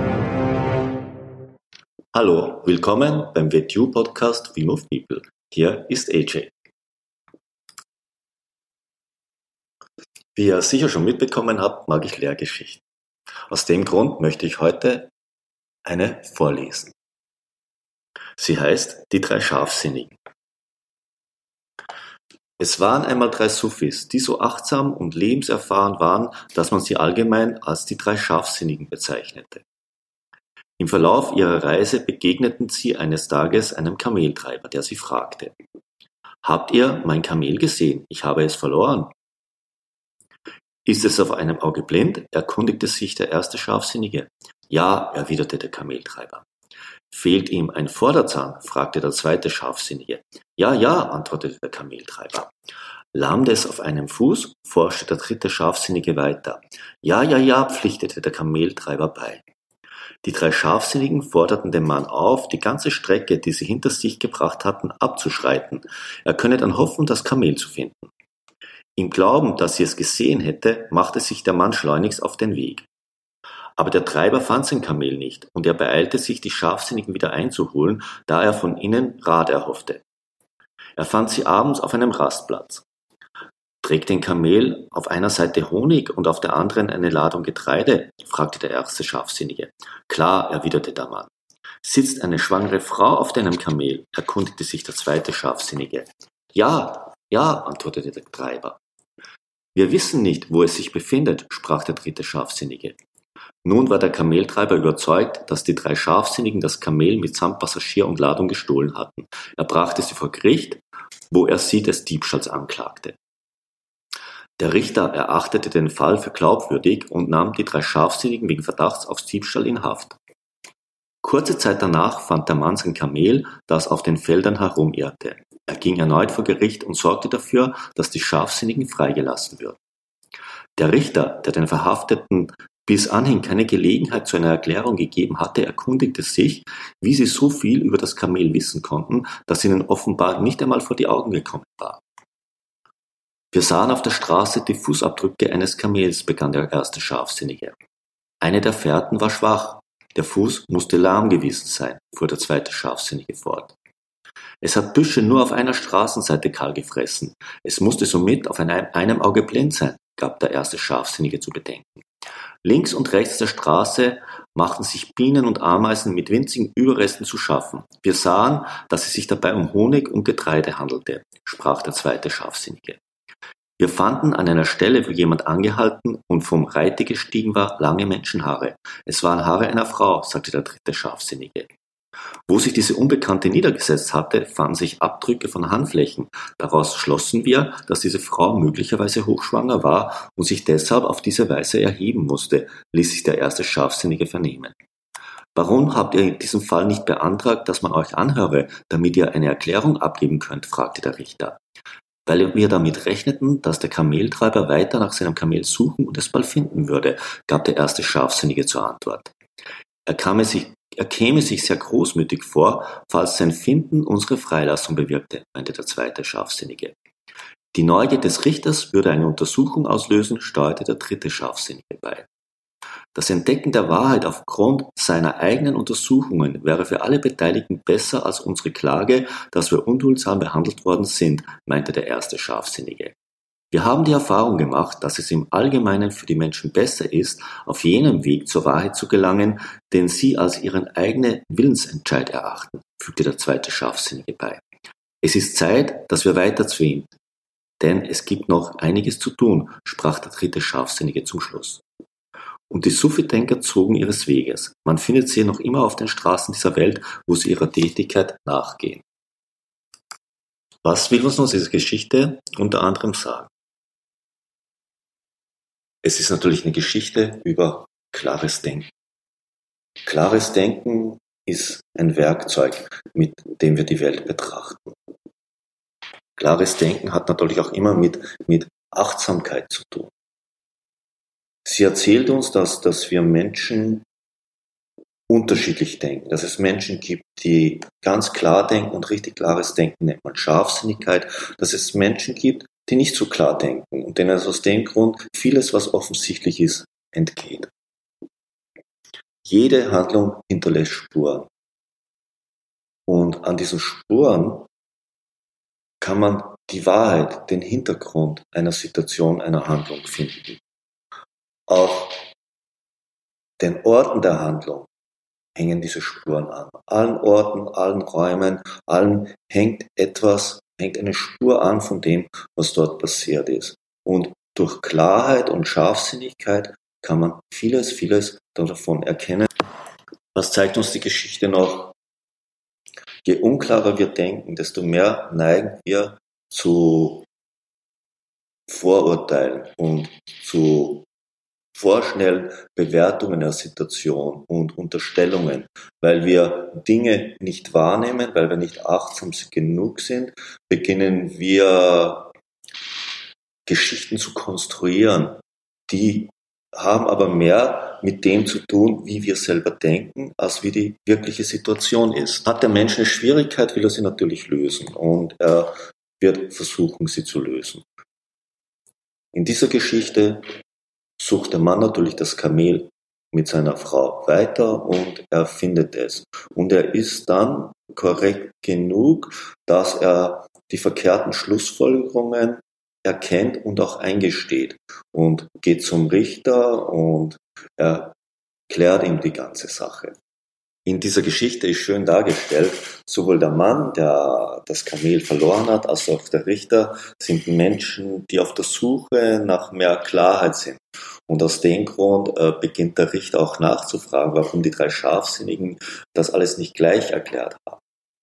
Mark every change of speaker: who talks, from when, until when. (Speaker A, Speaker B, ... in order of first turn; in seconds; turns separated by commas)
Speaker A: 2.1-6.5, Speaker A: 10.3-12.8, Speaker A: 13.5-15.1, Speaker A: 15.8-16.9, Speaker A: 18.4-20.2, Speaker A: 22.6-29.6, Speaker A: 30.8-35.5, Speaker A: 36.4-39.1, Speaker A: 40.9-46.5, Speaker A: 47.1-52.5, Speaker A: 53.1-59.5, Speaker A: 60.2-68.1, Speaker A: 69.0-72.9, Speaker A: 73.8-80.0, Speaker A: 81.0-82.8, Speaker A: 83.8-91.3, Speaker A: 91.8-98.8, Speaker A: 99.8-103.0, Speaker A: 103.6-113.2, Speaker A: 114.6-120.2, Speaker A: 121.2-129.8, Speaker A: 130.8-142.0, Speaker A: 143.5-147.8, Speaker A: 148.4-153.7, Speaker A: 154.6-162.1, Speaker A: 162.6-173.0, Speaker A: 173.8-181.7, Speaker A: 182.5-194.8, Speaker A: 195.6-201.6, Speaker A: 202.3-209.3, Speaker A: 210.1-217.0, Speaker A: 217.7-222.3, Speaker A: 223.1-233.2, Speaker A: 233.7-244.6, Speaker A: 245.2-247.1, Speaker A: 247.8-251.8, Speaker A: 252.7-259.1, Speaker A: 260.8-263.5, Speaker A: 266.0-268.9, Speaker A: 270.0-275.0, Speaker A: 276.4-280.1, Speaker A: 281.6-284.1, Speaker A: 285.3-297.7, Speaker A: 299.4-301.5, Speaker A: 303.1-304.7, Speaker A: 306.0-310.6, Speaker A: 311.7-312.2, Speaker A: 313.6-314.9, Speaker A: 315.6-329.5, Speaker A: 330.3-331.9, Speaker A: 333.2-337.3, Speaker A: 338.7-341.1, Speaker A: 341.7-352.3, Speaker A: 353.7-367.9, Speaker A: 369.3-370.4, Speaker A: 371.2-388.1, Speaker A: 388.7-390.2, Speaker A: 390.9-407.8